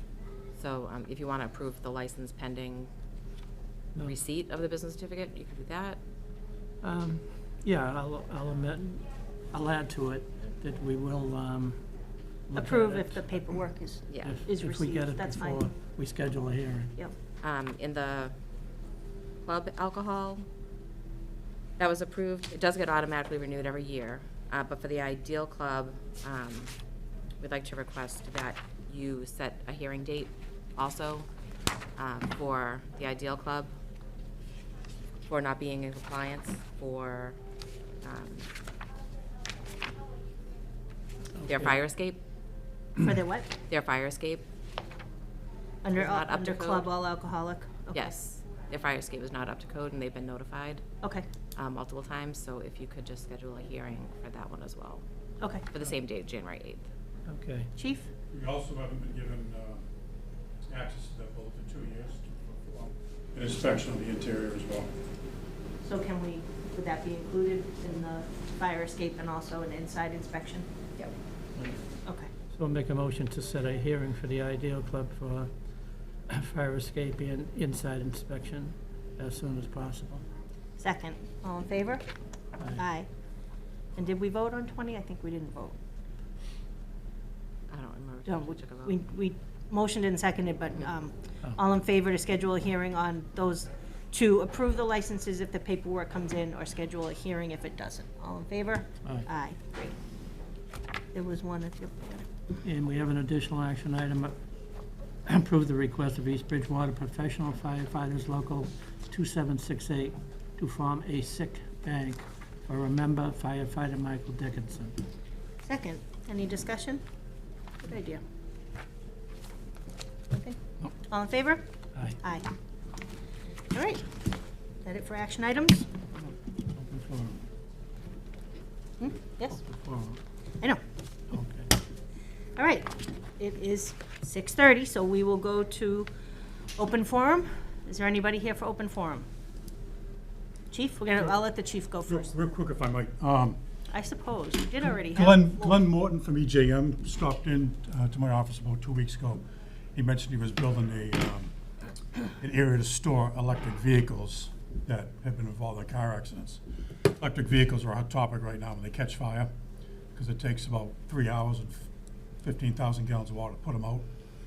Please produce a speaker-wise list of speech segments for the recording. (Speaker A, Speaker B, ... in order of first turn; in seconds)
Speaker A: 0.6-2.9, 4.0-6.0, 14.1-14.4, 17.4-18.4, 19.4-20.4, 21.8-26.7, 27.4-31.3, 32.0-33.7, 35.3-37.4, 38.0-38.5, 41.5-42.2, 43.6-44.5, 45.9-46.9, 47.9-50.8, 51.6-55.0, 55.7-56.9, 87.7-89.0
Speaker B: 6.8-11.8, 12.5-13.5, 14.2-16.9, 41.4-41.8, 57.3-57.7, 71.6-71.8, 72.5-75.5, 76.3-80.2, 102.6-104.4, 105.3-115.0, 126.2-127.4, 129.5-130.2, 131.3-131.7
Speaker C: 12.6-15.6, 43.0-43.6, 45.8-48.1, 55.4-55.7, 57.8-58.1, 65.8-70.7, 80.8-82.0, 82.8-83.1, 84.0-85.8, 88.3-99.9, 101.1-102.3, 115.7-117.0, 117.8-118.2, 120.3-121.6, 122.2-122.5, 123.7-124.0, 124.8-125.9, 129.0-129.6, 132.6-136.1, 136.8-139.3, 140.7-142.4, 143.9-145.8
Speaker D: 58.3-59.8, 60.7-64.9, 142.1-143.6, 145.0-149.4, 149.9-151.5, 152.4-156.6, 157.2-159.5, 160.1-161.9, 162.4-164.1